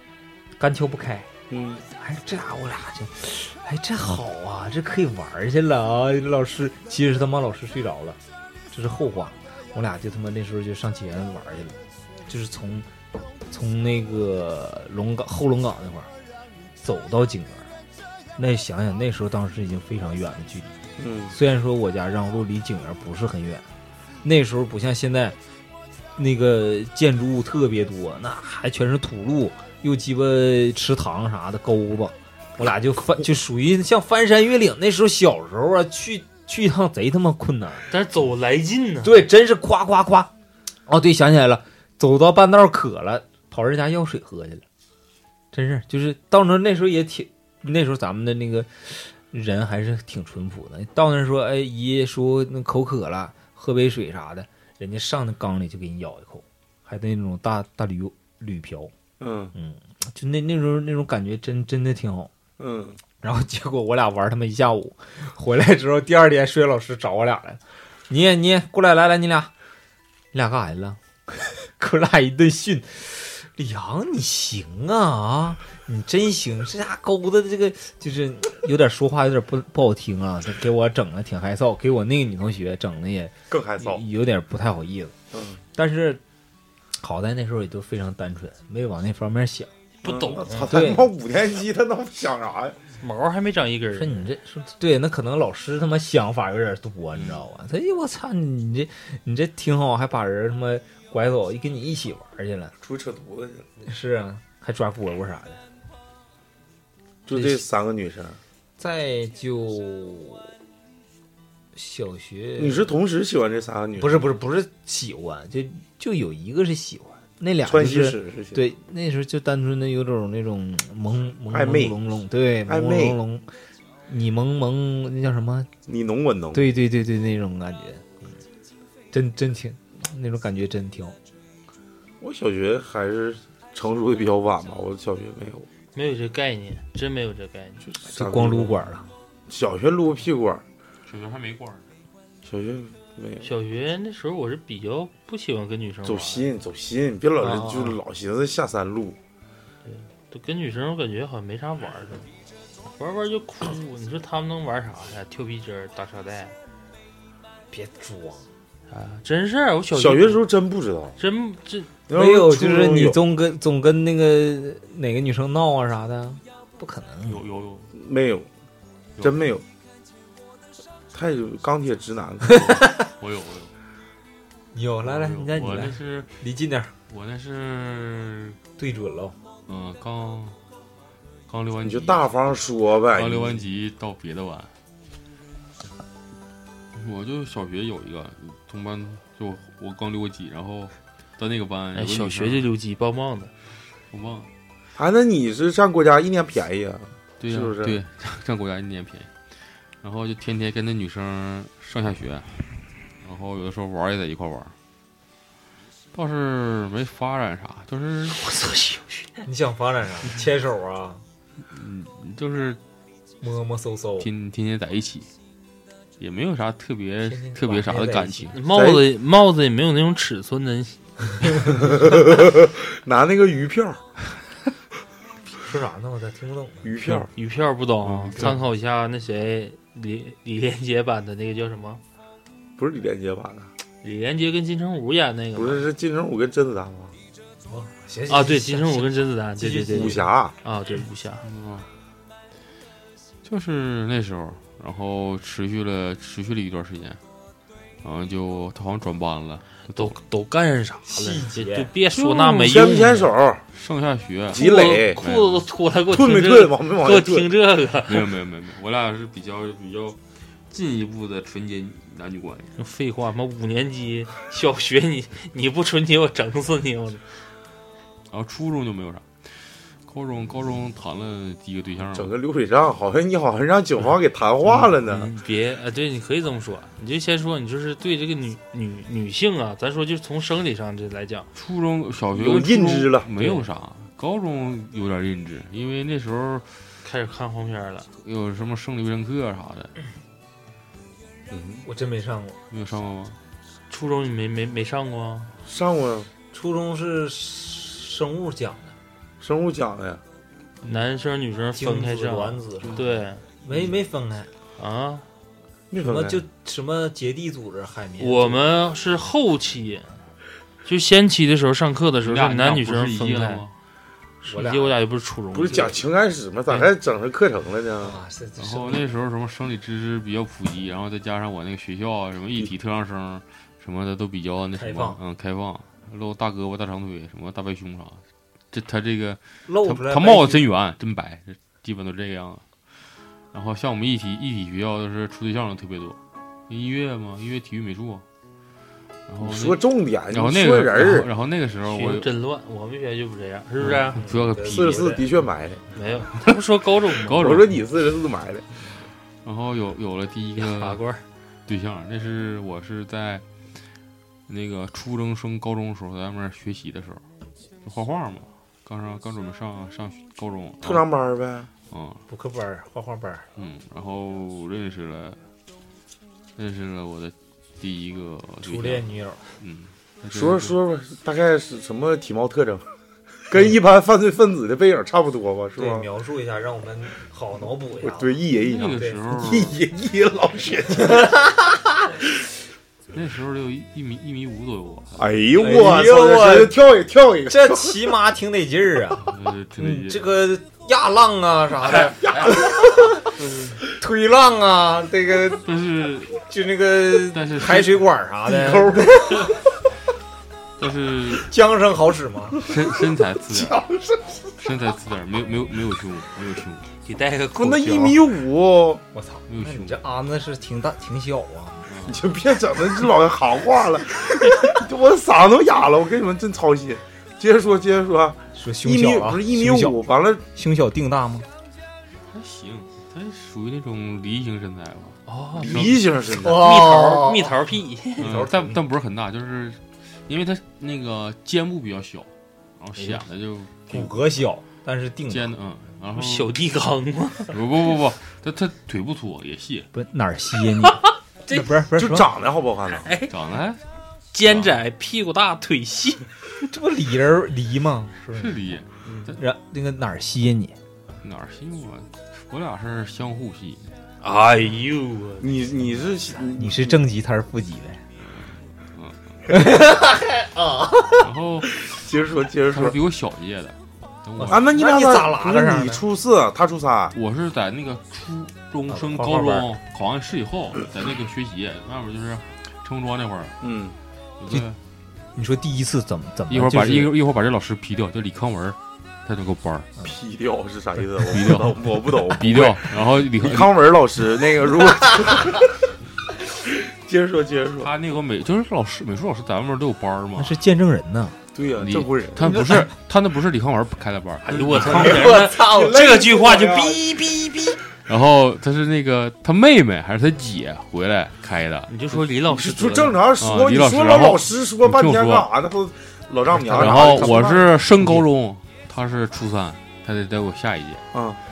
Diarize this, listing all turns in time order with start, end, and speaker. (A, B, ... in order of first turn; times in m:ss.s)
0:00.6-0:01.3 A
0:01.5-0:01.8 B
0:01.9-0:08.2 A
0:08.7-0:12.9 A
0:13.5-0:16.1 A
0:16.8-0:17.7 A
0:18.4-0:20.7 A
0:21.0-0:21.4 B
0:21.3-0:23.7 A
0:24.2-0:25.4 A
0:26.2-0:37.8 A
0:37.9-0:39.2 C
0:39.0-0:40.3 A
0:40.8-0:44.6 A
0:45.5-0:58.9 A
0:59.2-0:59.5 B
0:59.5-1:02.3 A
1:02.6-1:03.0 B
1:03.2-1:09.5 A
1:10.3-1:25.1 A
1:23.5-1:24.0 B
1:25.3-1:25.6 B
1:25.7-1:26.2 A
1:27.0-1:29.7 A
1:30.0-1:30.8 C
1:30.0-1:32.8 B
1:30.6-1:31.1 A
1:33.0-1:34.3 C
1:33.9-1:42.8 A
1:42.8-1:43.7 B
1:43.8-1:45.6 A
1:47.2-1:48.4 B
1:47.3-1:47.6 A
1:48.8-1:50.5 A
1:51.8-1:52.9 A
1:52.6-1:54.2 B
1:54.0-2:03.5 A
1:57.6-1:58.6 B
2:01.5-2:02.0 B
2:02.7-2:03.2 B
2:04.1-2:05.7 A
2:05.9-2:06.7 B
2:06.5-2:08.1 A
2:09.1-2:11.2 A
2:12.2-2:15.7 B
2:15.9-2:17.8 C
2:17.8-2:18.8 B
2:18.0-2:19.1 A
2:19.5-2:20.6 B
2:21.1-2:21.8 D
2:22.4-2:23.5 B
2:23.4-2:26.5 C
2:26.0-2:29.2 B
2:27.4-2:27.9 C
2:29.8-2:32.3 C
2:32.9-2:36.5 C
2:37.7-2:38.5 A
2:38.9-2:40.4 C
2:39.9-2:41.2 B
2:41.2-2:41.9 C
2:42.1-2:43.2 B
2:42.1-2:47.4 A
2:47.2-2:47.9 D
2:47.9-2:48.5 B
2:49.2-2:49.6 B
2:51.1-2:52.6 B
2:52.5-2:53.1 A
2:52.5-2:53.7 D
2:54.7-2:56.9 A
2:55.0-2:56.4 D
2:57.1-2:58.6 D
2:58.8-2:59.4 A
2:59.7-3:00.6 D
3:01.5-3:02.2 D
3:01.8-3:03.6 B
3:03.1-3:04.7 D
3:06.9-3:12.6 D
3:11.9-3:13.5 C
3:14.1-3:14.5 D
3:15.0-3:18.0 B
3:17.4-3:22.7 D
3:23.2-3:24.7 D
3:26.1-3:28.5 D
3:28.5-3:29.4 C
3:29.4-3:31.2 A
3:31.7-3:32.8 D
3:33.4-3:34.3 A
3:34.2-3:35.3 D
3:36.2-3:38.6 D
3:37.2-3:38.6 A
3:38.5-3:41.6 C
3:38.6-3:39.0 B
3:41.6-3:44.0 B
3:45.6-3:47.0 A
3:46.8-3:47.3 B
3:47.1-3:52.0 C
3:48.0-3:48.6 D
3:52.8-3:53.7 B
3:54.0-3:55.8 C
3:55.5-3:57.1 B
3:57.7-4:00.3 A
3:58.3-4:01.4 C
3:59.9-4:00.5 B
4:01.4-4:01.9 D
4:03.4-4:07.2 D
4:08.0-4:10.2 D
4:09.9-4:13.3 C
4:11.0-4:11.9 A
4:12.1-4:13.0 D
4:12.6-4:13.6 B
4:13.7-4:15.6 D
4:14.5-4:15.2 B
4:14.5-4:18.3 C
4:16.1-4:17.5 B
4:18.0-4:22.7 D
4:22.8-4:27.2 C
4:28.3-4:32.3 D
4:32.1-4:35.3 B
4:34.6-4:41.5 C
4:41.5-4:46.9 D
4:42.3-4:43.3 B
4:43.4-4:43.6 C
4:47.0-4:48.1 C
4:48.2-4:49.9 D
4:51.5-4:51.8 B
4:51.8-4:52.6 A
4:52.7-4:53.4 D
4:53.9-4:55.5 C
4:55.6-4:56.3 B
4:56.5-4:59.0 A
4:59.4-5:00.2 B
5:00.8-5:03.4 C
5:01.7-5:03.1 A
5:02.8-5:03.1 D
5:03.6-5:04.5 A
5:04.8-5:05.2 C
5:05.9-5:06.4 B
5:05.9-5:08.6 A
5:08.2-5:10.1 C
5:10.8-5:13.6 C
5:12.2-5:13.7 D
5:14.4-5:14.9 A
5:14.4-5:16.0 C
5:15.5-5:18.2 B
5:18.0-5:19.0 A
5:18.6-5:28.2 D
5:24.7-5:25.2 A
5:28.7-5:32.6 D
5:29.6-5:30.6 A
5:33.5-5:38.2 D
5:39.3-5:42.3 D
5:39.4-5:41.3 B
5:41.8-5:44.2 C
5:43.8-5:45.2 D
5:44.1-5:45.3 A
5:44.6-5:45.9 B
5:45.9-5:47.6 C
5:47.2-5:47.8 D
5:47.4-5:48.6 B
5:49.4-5:51.0 D
5:50.6-5:51.2 C
5:51.7-5:53.4 D
5:54.5-5:57.2 D
5:57.8-6:01.0 D
6:00.8-6:01.7 B
6:01.9-6:02.2 D
6:02.3-6:03.5 A
6:03.6-6:05.4 D
6:06.6-6:09.1 D
6:08.6-6:09.4 A
6:09.6-6:10.8 D
6:10.3-6:12.9 B
6:13.5-6:16.1 B
6:15.8-6:19.2 A
6:18.0-6:21.3 B
6:18.6-6:19.7 D
6:21.0-6:22.1 A
6:23.1-6:25.2 D
6:25.2-6:28.0 B
6:25.6-6:26.7 A
6:27.5-6:33.4 A
6:29.2-6:30.3 D
6:33.4-6:33.8 D
6:33.9-6:35.7 A
6:35.6-6:36.4 D
6:36.4-6:39.7 A
6:37.1-6:38.1 D
6:38.4-6:39.5 B
6:40.8-6:41.5 D
6:41.3-6:42.6 A
6:42.6-6:43.8 D
6:43.5-6:44.3 B
6:44.6-6:46.9 D
6:47.0-6:48.2 C
6:47.6-6:49.0 B
6:49.1-6:51.9 A
6:49.5-6:50.0 D
6:51.9-6:52.2 D
6:52.1-7:00.4 B
6:58.5-7:01.5 A
7:02.3-7:06.1 D
7:05.3-7:05.9 C
7:05.6-7:06.6 B
7:06.3-7:07.6 A
7:06.5-7:08.2 C
7:08.2-7:08.8 A
7:08.2-7:14.3 D
7:13.9-7:15.5 A
7:15.3-7:16.5 D
7:16.1-7:17.5 C
7:17.5-7:19.9 D
7:19.9-7:22.3 A
7:22.0-7:23.1 B
7:22.9-7:23.3 C
7:23.3-7:23.8 D
7:24.3-7:26.3 C
7:24.4-7:24.8 D
7:26.7-7:28.6 A
7:28.3-7:29.4 D
7:29.3-7:30.8 A
7:31.2-7:33.9 D
7:34.2-7:35.5 C
7:35.4-7:37.0 B
7:36.5-7:38.0 A
7:38.2-7:39.2 D
7:39.5-7:41.3 A
7:41.2-7:42.1 D
7:41.9-7:43.0 B
7:42.7-7:44.6 D
7:44.4-7:46.1 A
7:44.5-7:47.2 B
7:47.1-7:53.6 D
7:48.9-7:49.7 A
7:53.6-7:53.9 B
7:54.4-7:54.8 D
7:55.4-7:57.1 A
7:56.5-7:59.9 D
8:00.0-8:05.6 B
8:01.2-8:03.7 D
8:07.0-8:07.9 B
8:07.8-8:10.5 D
8:10.4-8:11.4 A
8:11.5-8:12.6 B
8:11.8-8:15.2 D
8:12.4-8:12.9 A
8:14.4-8:17.8 C
8:14.7-8:16.4 A
8:14.9-8:17.0 B
8:18.1-8:22.2 D
8:21.9-8:23.2 C
8:22.4-8:27.6 B
8:23.4-8:25.5 D
8:26.5-8:28.2 A
8:26.7-8:31.0 D
8:31.1-8:31.4 B